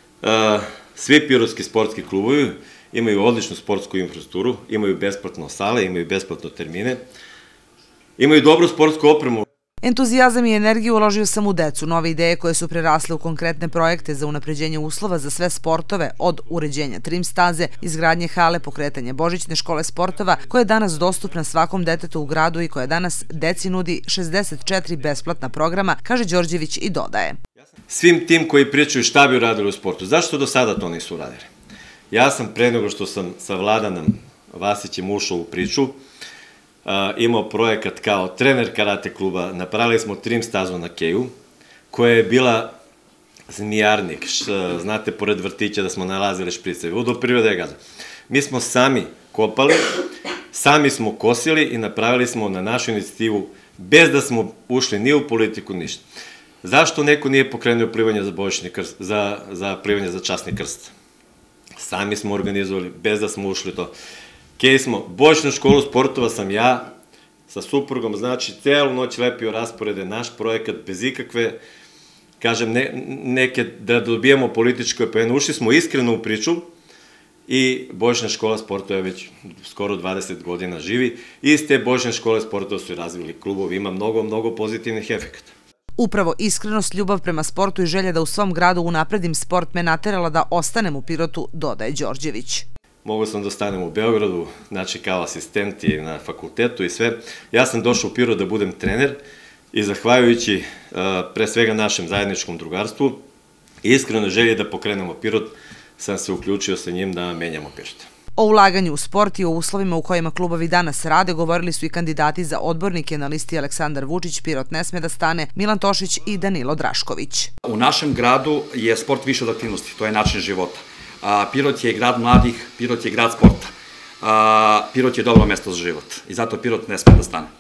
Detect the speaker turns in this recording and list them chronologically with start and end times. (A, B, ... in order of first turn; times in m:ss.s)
0:00.2-0:07.0 A
0:08.2-0:09.4 A
0:09.8-0:27.4 B
0:27.9-0:31.5 A
0:32.1-0:36.0 A
0:36.8-0:41.3 A
0:41.9-0:42.8 A
0:43.5-0:47.8 A
0:48.3-0:49.9 A
0:50.5-0:56.0 A
0:56.6-1:00.9 A
1:01.8-1:03.9 A
1:04.6-1:06.9 A
1:07.5-1:11.6 A
1:12.4-1:16.7 A
1:17.5-1:25.5 A
1:26.0-1:32.7 B
1:33.0-1:39.2 A
1:39.7-1:43.2 A
1:43.8-1:48.1 A
1:48.4-1:57.5 B
1:57.6-2:07.5 C